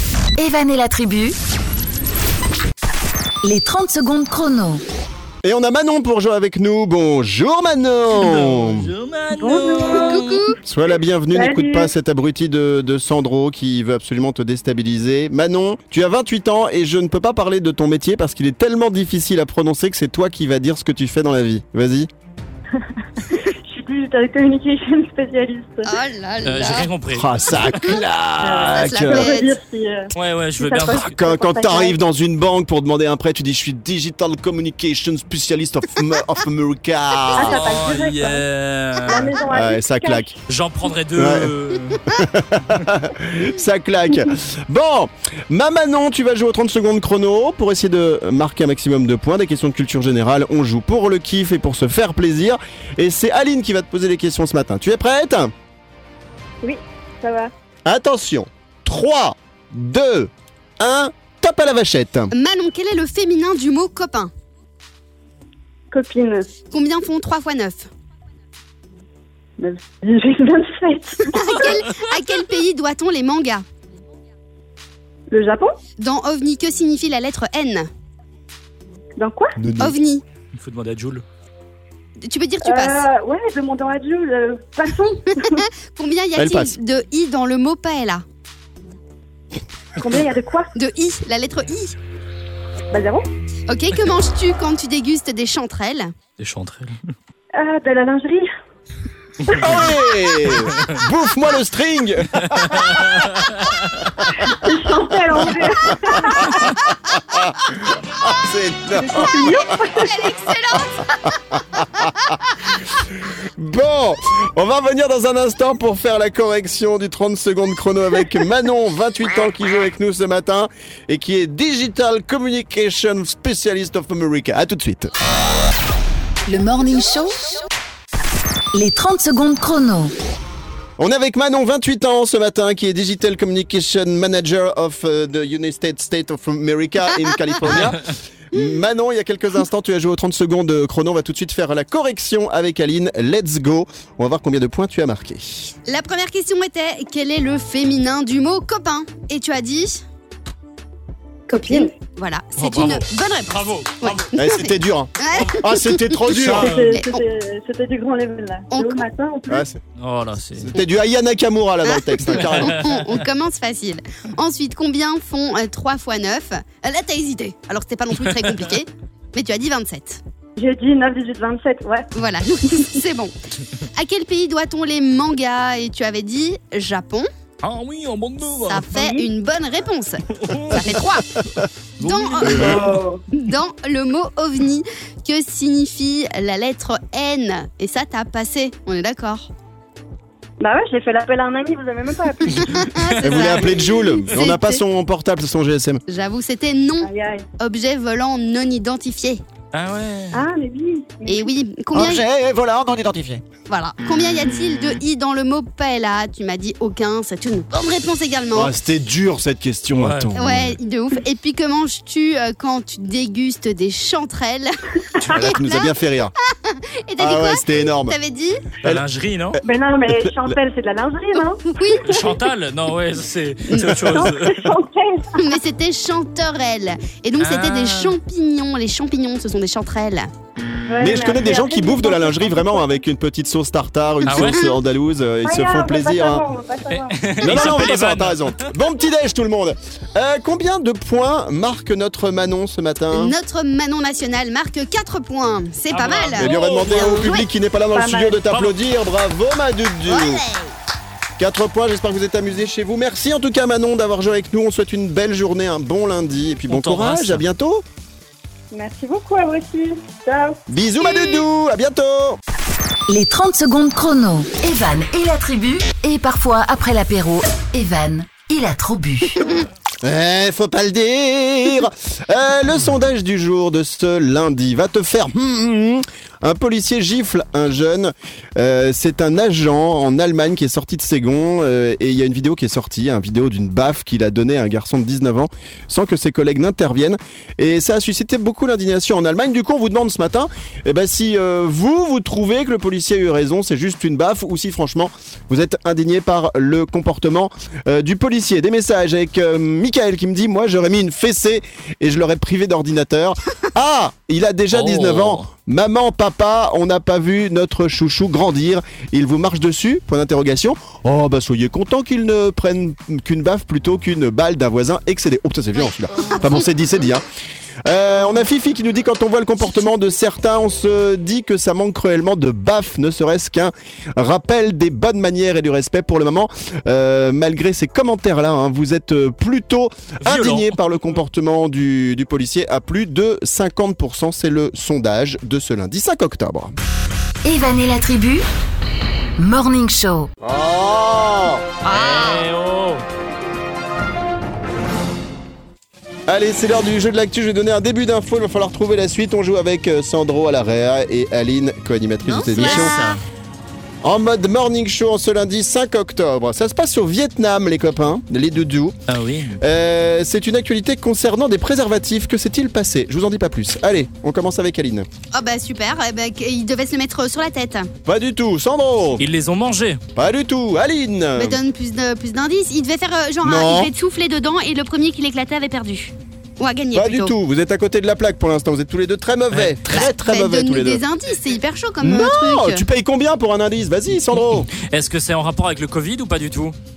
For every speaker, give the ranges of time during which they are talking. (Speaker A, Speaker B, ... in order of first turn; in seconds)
Speaker A: 0.4-1.3, 3.4-4.8, 126.5-127.6, 128.7-130.1, 263.1-269.4, 337.4-338.4, 339.4-340.3
Speaker B: 5.4-8.9, 10.6-22.1, 27.1-29.4, 31.0-37.6, 39.5-40.3, 41.1-41.5, 42.1-55.5, 57.9-62.3, 79.6-80.0, 86.4-86.8, 99.5-103.4, 105.3-106.5, 107.3-109.8, 111.5-112.3, 113.6-125.1, 131.0-145.7, 154.4-156.7, 159.5-159.8, 160.6-162.8, 193.2-196.0, 201.9-203.4, 208.5-210.8, 215.2-216.3, 217.2-218.1, 220.1-220.6, 231.0-236.4, 237.4-243.4, 246.4-250.4, 251.4-257.8, 260.7-262.4, 270.0-317.2, 317.9-336.8, 340.4-341.6, 346.3-352.9, 354.0-359.0, 359.6-365.1, 368.0-369.2, 370.1-371.6, 373.4-373.9, 376.9-381.0, 382.0-384.7
Speaker C: 8.1-10.4, 26.4-27.9, 30.1-31.2, 37.4-39.4, 40.5-42.0, 80.6-81.2, 96.4-97.1, 99.6-99.9, 100.5-101.0, 102.5-104.0, 152.6-154.3, 156.1-156.9, 160.0-160.7, 162.3-163.0, 177.6-179.3, 180.3-181.0, 182.0-182.8, 193.2-193.7, 199.7-200.4, 209.9-210.4, 218.8-219.6, 222.1-224.7, 227.4-228.2, 234.2-234.6, 236.9-238.7, 245.9-247.4, 248.5-248.8, 256.7-257.4, 304.7-305.5, 330.2-330.8, 341.9-343.0, 352.6-353.2, 359.1-359.6, 369.2-370.0, 379.5-380.0, 384.7-386.8
Speaker D: 9.4-10.4, 11.3-11.9, 23.3-26.0, 28.4-32.0, 37.3-38.4, 39.0-40.4, 56.6-57.5, 65.9-66.5, 69.6-71.3, 75.3-75.8, 79.2-79.6, 82.6-85.6, 90.0-90.7, 92.9-93.3, 97.5-98.5, 104.4-106.7, 108.9-110.2, 151.5-151.9, 156.5-159.6, 170.6-172.1, 182.5-183.2, 190.6-192.9, 197.0-197.4, 200.3-201.5, 219.6-222.4, 223.9-225.6, 230.9-232.8, 235.4-237.5, 247.9-248.4, 258.7-260.6
Speaker E: 10.1-10.5, 25.8-26.9, 28.7-29.6, 62.3-64.3, 66.7-67.9, 71.3-73.6, 76.0-77.9, 79.8-80.2, 82.2-83.1, 85.4-88.2, 90.8-91.9, 93.7-96.1, 109.7-112.8, 145.9-150.0, 151.6-156.2, 156.9-157.2, 158.7-159.0, 161.8-170.2, 172.1-173.3, 173.9-177.3, 178.7-181.3, 182.0-189.5, 192.8-194.8, 196.1-199.4, 201.2-202.2, 203.7-208.7, 210.4-215.9, 216.7-218.6, 221.4-222.1, 223.7-224.1, 225.4-230.3, 243.1-247.4, 250.1-250.7, 261.0-261.4, 316.1-316.4, 341.9-342.5, 352.2-353.1, 365.3-367.9, 371.4-377.3, 379.9-382.9